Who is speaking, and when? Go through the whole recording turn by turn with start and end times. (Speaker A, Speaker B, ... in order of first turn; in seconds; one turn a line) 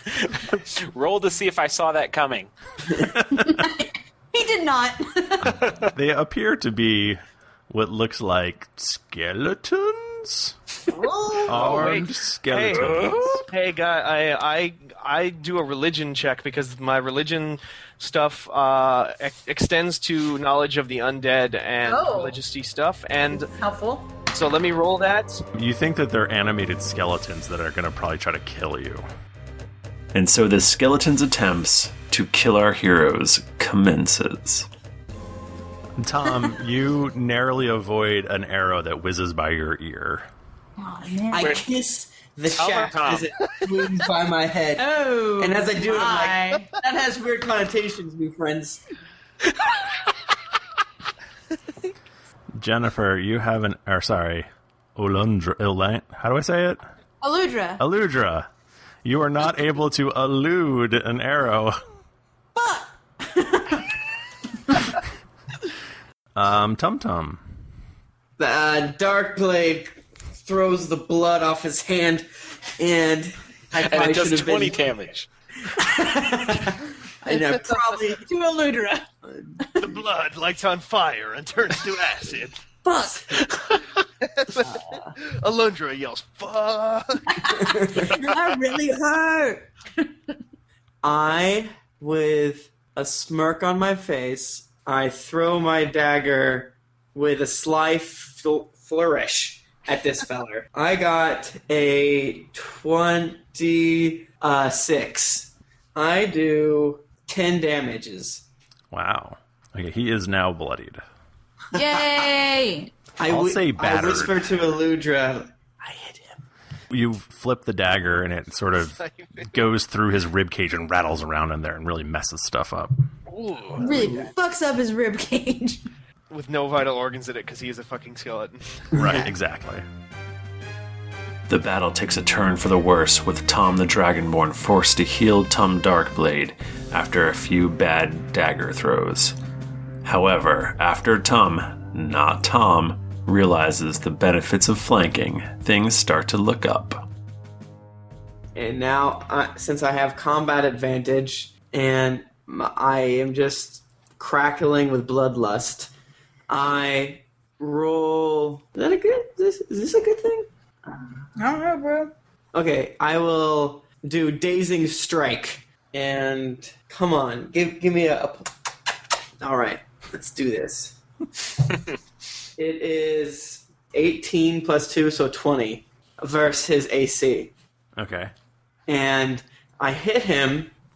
Speaker A: 0.2-2.5
Speaker B: 3.3-5.5
Speaker C: 5.4-10.6
Speaker B: 10.9-11.8
Speaker D: 11.2-23.5
Speaker C: 11.4-13.5
Speaker B: 21.8-22.4
Speaker B: 23.3-24.1
Speaker D: 24.3-25.4
Speaker C: 25.5-29.0
Speaker E: 30.1-34.7
Speaker C: 36.0-40.2
Speaker B: 40.8-41.5
Speaker F: 41.3-44.8
Speaker A: 42.6-43.3
Speaker B: 44.8-46.7
Speaker F: 45.4-48.8
Speaker C: 52.6-56.8
Speaker B: 57.2-57.8
Speaker C: 57.8-58.5
Speaker C: 59.0-61.8
Speaker B: 62.5-63.9
Speaker C: 66.3-67.4
Speaker F: 68.4-72.2
Speaker F: 72.8-74.8
Speaker A: 73.8-75.3
Speaker F: 75.7-78.2
Speaker B: 77.2-79.0
Speaker D: 79.8-82.6
Speaker B: 82.8-83.3
Speaker A: 83.5-83.8
Speaker D: 84.2-87.4
Speaker F: 84.6-85.1
Speaker B: 87.3-90.0
Speaker F: 87.6-88.1
Speaker F: 91.0-108.4
Speaker C: 108.9-111.0
Speaker B: 111.7-112.9
Speaker F: 113.2-116.4
Speaker C: 113.2-114.4
Speaker C: 116.9-123.0
Speaker D: 118.9-119.5
Speaker D: 123.3-124.3
Speaker B: 123.8-125.9
Speaker D: 126.3-128.9
Speaker C: 128.9-129.8
Speaker F: 129.0-129.3
Speaker E: 131.5-139.4
Speaker E: 140.0-147.1
Speaker F: 148.6-155.9
Speaker F: 156.5-160.5
Speaker B: 161.3-162.1
Speaker F: 162.5-168.5
Speaker F: 169.4-171.0
Speaker F: 172.6-177.5
Speaker C: 178.0-178.3
Speaker F: 178.9-180.7